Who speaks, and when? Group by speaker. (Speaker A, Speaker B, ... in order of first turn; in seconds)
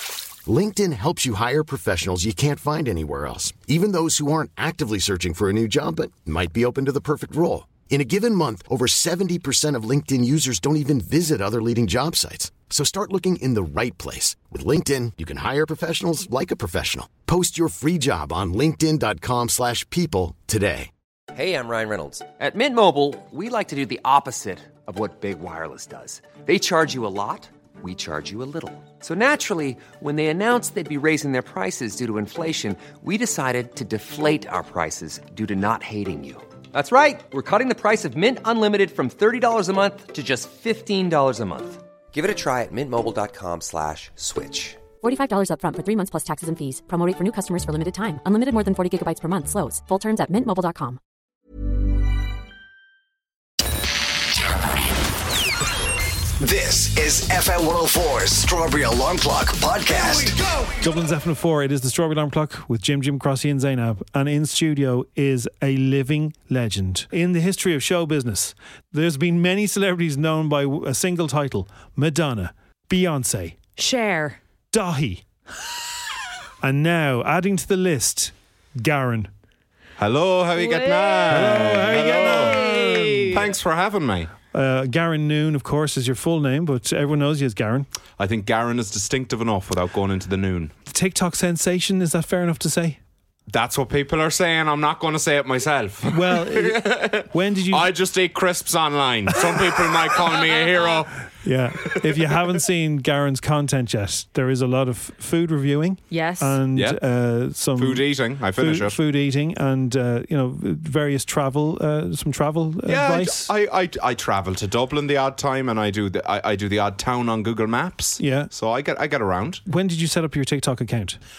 Speaker A: 0.5-20.9
Speaker B: 21.3-44.8
Speaker C: 45.0-51.0
Speaker D: 56.4-60.4
Speaker E: 60.8-73.6, 74.7-75.2, 76.6-79.3, 81.3-83.4, 84.5-87.9, 90.9-93.0, 96.1-97.9, 101.4-113.5, 118.2-118.5, 119.7-121.2
Speaker F: 73.8-74.4, 80.6-81.4, 82.0-83.4, 100.5-101.0, 106.1-106.6
Speaker G: 80.0-84.3, 88.2-90.7, 93.5-101.1, 106.7-107.0, 107.8-109.0, 112.9-119.6